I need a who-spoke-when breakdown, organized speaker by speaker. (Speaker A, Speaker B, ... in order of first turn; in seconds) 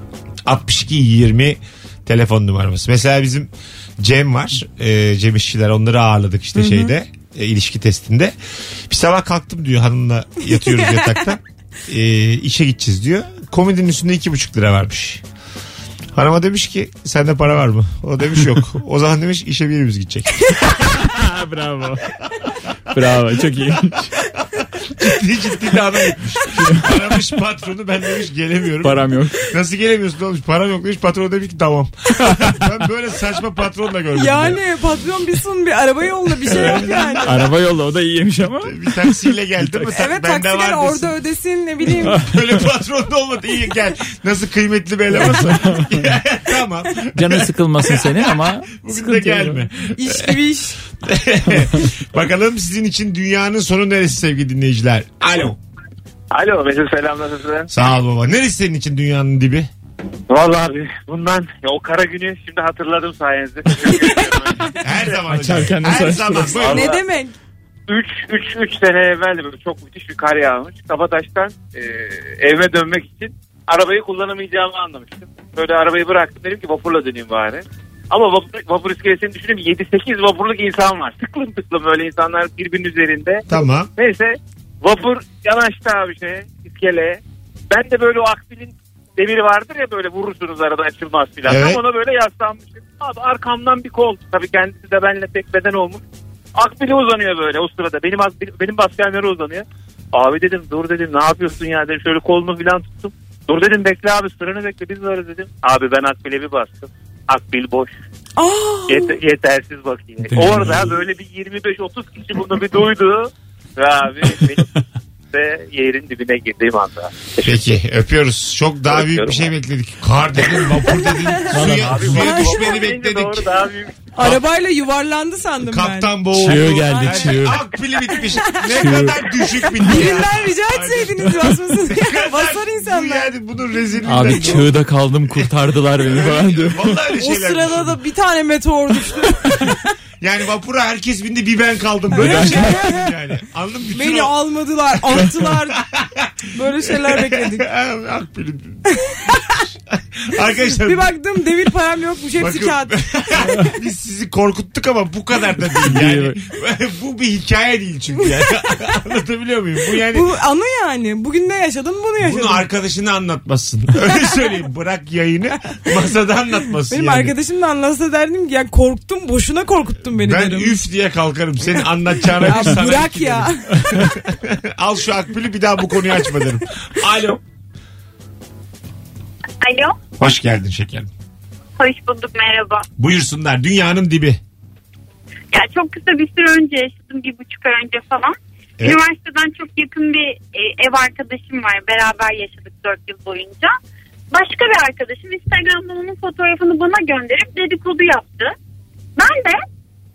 Speaker A: 0.4-8.3, 8.9-15.2, 16.1-20.6, 24.6-34.6, 36.5-37.4, 38.6-41.1, 42.0-50.4, 51.0-55.6, 57.7-59.7, 64.7-66.9, 83.5-83.9, 91.5-91.8, 117.4-123.5, 125.6-134.7, 135.3-138.0, 140.2-144.3, 145.1-151.1, 152.4-160.3, 162.2-167.3, 170.1-177.4, 180.2-181.1, 183.0-184.4
Speaker B: 6.5-6.9, 10.5-11.2, 34.1-37.4, 39.9-42.2, 50.0-50.8, 63.9-64.7, 66.6-67.3, 108.4-109.2, 121.0-121.4, 122.2-122.7, 124.2-127.4, 128.1-133.3, 137.2-139.8, 142.1-143.1, 143.9-145.8, 146.5-147.7, 148.9-149.4, 150.6-153.0, 160.1-162.6, 166.9-170.8, 172.4-173.8
Speaker C: 20.9-22.1, 22.9-24.1, 26.5-27.1, 28.8-29.4, 32.2-32.6, 36.5-39.9, 42.0-42.6, 45.2-45.9, 47.1-49.6, 65.2-66.7, 110.3-111.0, 121.5-122.3, 126.4-127.6, 128.7-129.1, 134.0-137.0, 142.2-142.7, 153.4-153.7, 155.8-156.4
Speaker D: 56.3-57.7, 60.3-64.7, 66.6-67.0, 67.9-96.0, 96.5-107.9, 108.9-114.7, 115.3-117.6, 118.9-119.5, 121.7-124.1
Speaker E: 179.6-179.9, 181.8-182.8, 185.5-193.7, 194.3-198.5, 199.2-199.6